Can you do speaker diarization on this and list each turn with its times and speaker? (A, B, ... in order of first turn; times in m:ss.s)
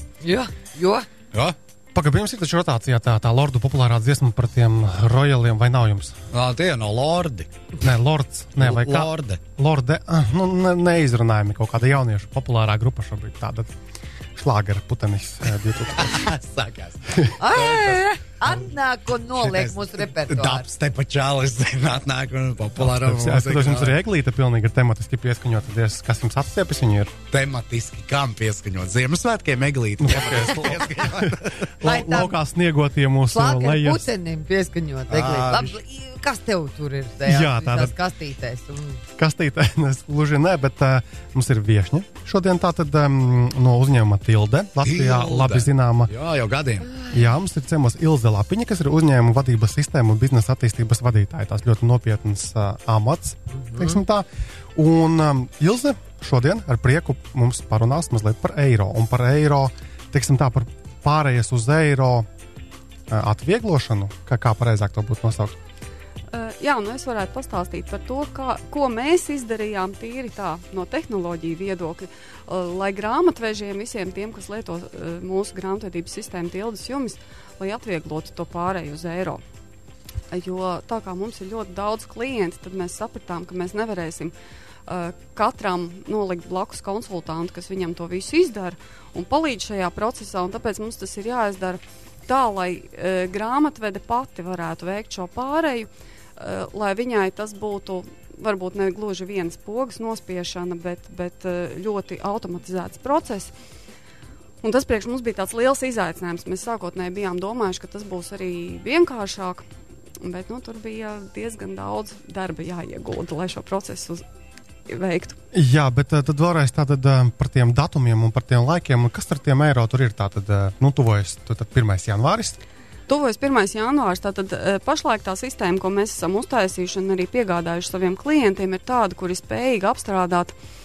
0:00.2-0:01.1 A
0:01.9-0:06.1 B
0:06.3-0:07.5 C
0:07.8-0:13.7 B
0:08.6-0:09.4 C
0:14.4-0:16.3 B
0:15.9-0:18.6 C
0:17.1-0:17.4 B
0:17.4-0:20.6 A
0:19.2-0:24.0 C
0:22.8-0:27.1 B
0:27.3-0:31.7 C
0:30.0-0:34.1 B
0:31.8-0:32.3 A
0:33.3-0:39.0 A
0:35.1-0:35.8 C
0:37.2-0:37.9 B
0:39.2-0:46.1 B
0:44.8-0:46.9 C
0:47.1-1:02.3 B
1:03.1-1:05.6 B
1:06.3-1:19.4 D
1:20.3-1:24.3 D
1:24.9-1:43.5 D
1:44.6-1:49.6 D
1:50.2-1:54.2 D
1:54.9-1:55.4 D
1:55.5-2:02.6 B
2:03.1-2:10.5 D